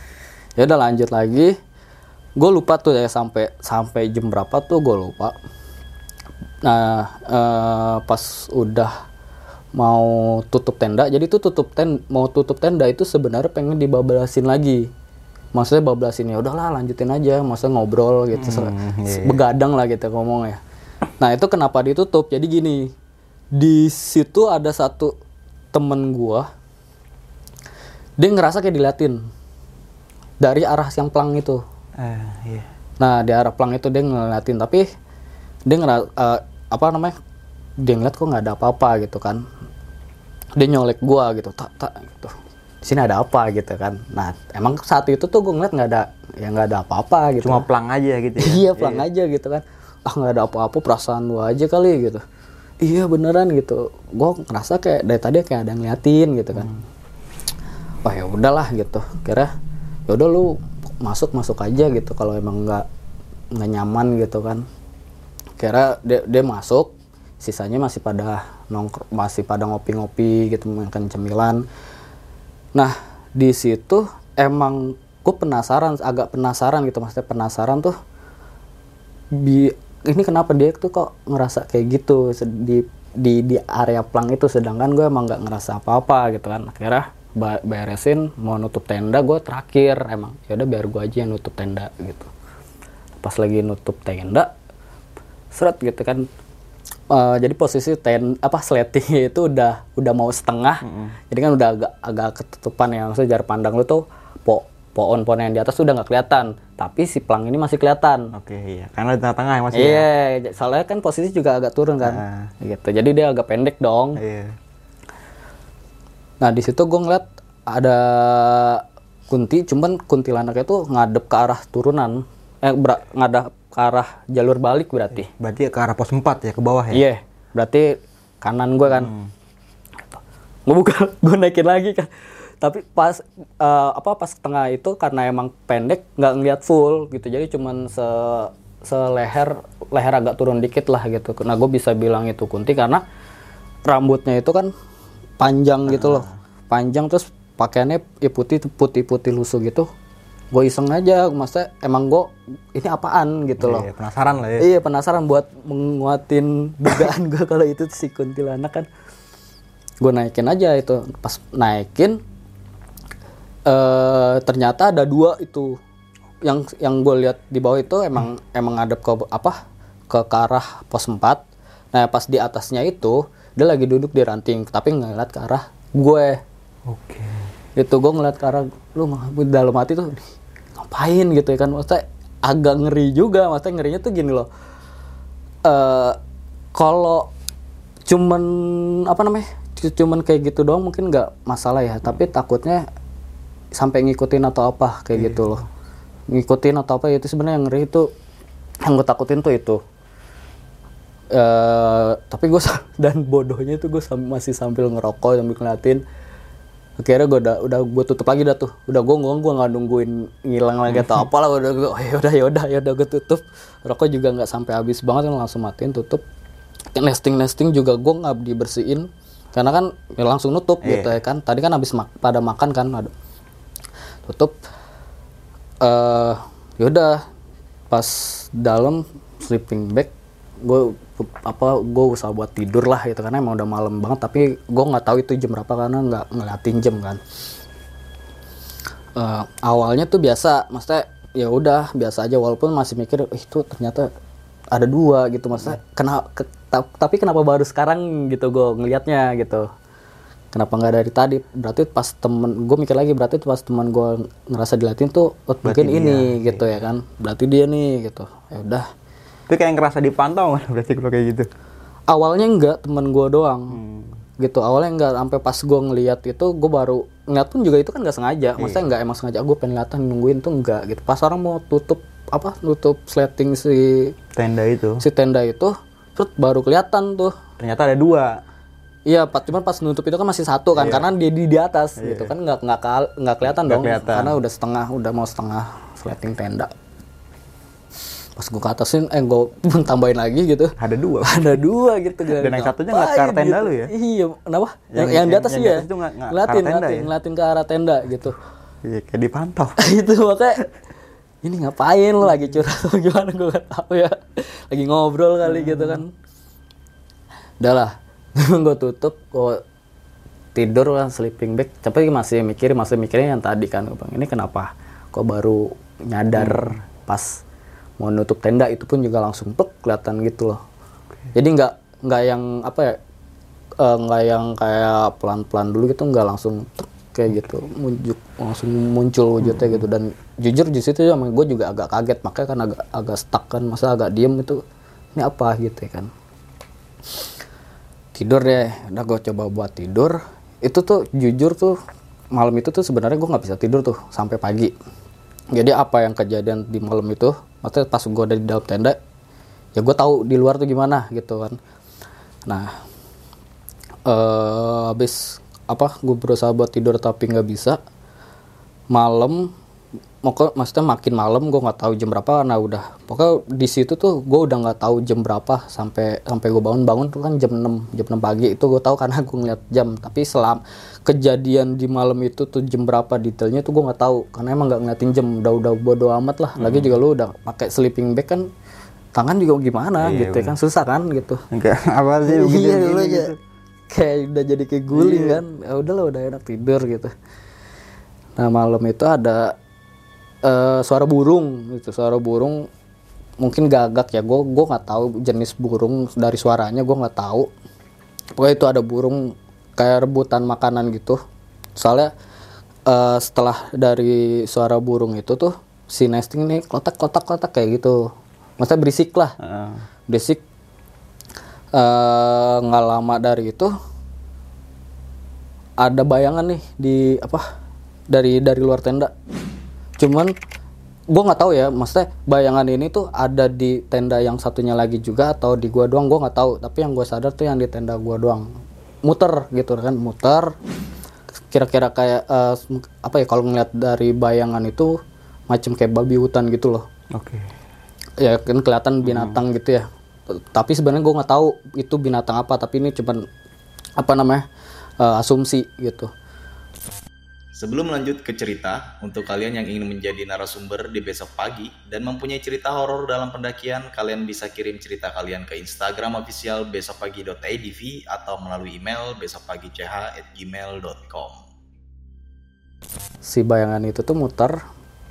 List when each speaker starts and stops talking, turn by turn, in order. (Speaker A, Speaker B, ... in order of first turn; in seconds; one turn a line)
Speaker A: 0.6-1.5
Speaker A: 2.4-5.3
Speaker A: 6.6-8.9
Speaker A: 9.8-14.8
Speaker A: 15.5-20.6
Speaker B: 18.4-19.4
Speaker A: 21.2-22.9
Speaker A: 23.5-25.1
Speaker A: 25.7-26.5
Speaker A: 28.2-29.2
Speaker A: 30.4-31.6
Speaker B: 32.0-32.7
Speaker A: 33.0-34.8
Speaker A: 35.7-37.1
Speaker A: 37.8-39.4
Speaker A: 40.5-47.6
Speaker B: 47.4-49.0
Speaker A: 48.4-52.2
Speaker A: 52.8-56.8
Speaker A: 58.0-59.5
Speaker A: 60.1-62.8
Speaker A: 63.5-64.6
Speaker A: 65.6-71.6
Speaker A: 72.7-77.9
Speaker A: 79.3-92.3
Speaker A: 93.2-94.5
Speaker A: 95.5-96.3
Speaker A: 97.1-108.3
Speaker B: 100.8-101.1
Speaker B: 108.3-110.1
Speaker A: 109.7-114.2
Speaker B: 112.0-112.5
Speaker B: 114.2-114.5
Speaker A: 116.4-125.3
Speaker B: 125.3-127.0
Speaker A: 126.9-129.1
Speaker B: 128.9-129.3
Speaker A: 130.7-143.0
Speaker A: 143.8-144.7
Speaker A: 145.4-149.9
Speaker B: 145.9-146.3
Speaker A: 150.5-153.9
Speaker B: 153.6-154.7
Speaker A: 154.6-158.9
Speaker A: 160.0-162.2
Speaker A: 163.7-165.8
Speaker A: 166.4-169.6
Speaker A: 170.1-176.4
Speaker B: 176.8-177.5
Speaker A: 177.8-180.2
Speaker A: 180.8-184.5
Speaker A: 185.6-186.2
Speaker A: 186.7-187.3
Speaker A: 188.1-192.8
Speaker A: 193.7-195.6
Speaker A: 196.3-198.1
Speaker A: 198.8-199.8
Speaker A: 201.3-206.0
Speaker A: 207.0-216.2
Speaker A: 216.9-223.1
Speaker B: 220.8-221.1
Speaker A: 224.3-224.6
Speaker A: 225.8-227.2
Speaker A: 227.9-230.1
Speaker A: 230.6-237.2
Speaker A: 239.2-244.1
Speaker A: 244.7-249.6
Speaker A: 250.5-258.9
Speaker B: 255.6-256.6
Speaker B: 259.5-261.5
Speaker A: 262.1-263.8
Speaker B: 263.8-264.1
Speaker A: 264.4-274.1
Speaker B: 268.6-268.8
Speaker B: 274.3-275.0
Speaker A: 275.0-277.3
Speaker B: 277.6-278.4
Speaker A: 279.1-286.7
Speaker B: 280.8-281.1
Speaker B: 282.0-282.3
Speaker B: 283.5-284.3
Speaker A: 288.4-298.4
Speaker B: 290.8-291.5
Speaker B: 292.4-293.9
Speaker B: 294.9-297.1
Speaker B: 298.8-299.8
Speaker A: 299.8-300.6
Speaker A: 301.4-306.1
Speaker B: 305.4-306.0
Speaker A: 307.6-309.6
Speaker A: 310.5-317.4
Speaker B: 316.4-316.8
Speaker A: 318.0-320.6
Speaker A: 321.3-323.0
Speaker A: 323.8-334.6
Speaker A: 335.1-336.1
Speaker A: 338.1-341.8
Speaker A: 342.3-344.7
Speaker A: 345.5-349.0
Speaker A: 349.8-351.6
Speaker A: 352.4-352.7
Speaker A: 354.1-357.8
Speaker A: 358.9-359.5
Speaker A: 360.2-378.4
Speaker B: 376.6-376.9
Speaker A: 379.1-381.4
Speaker B: 380.0-380.6
Speaker B: 381.5-383.4
Speaker A: 382.2-383.3
Speaker A: 383.9-387.1
Speaker B: 384.9-385.4
Speaker A: 388.4-389.5
Speaker A: 390.4-392.7
Speaker A: 393.4-397.5
Speaker A: 398.4-401.2
Speaker A: 401.8-402.1
Speaker A: 402.9-408.0
Speaker A: 408.6-409.4
Speaker B: 409.4-409.8
Speaker A: 410.1-410.4
Speaker A: 411.7-413.7
Speaker A: 415.8-417.4
Speaker A: 418.1-419.1
Speaker A: 420.0-420.3
Speaker A: 421.1-428.5
Speaker A: 429.0-430.5
Speaker A: 431.5-434.9
Speaker A: 435.5-436.8
Speaker B: 437.1-437.5
Speaker A: 438.2-443.2
Speaker B: 439.0-439.4
Speaker A: 444.0-444.4
Speaker A: 445.0-446.1
Speaker C: 447.5-461.4
Speaker A: 463.2-464.6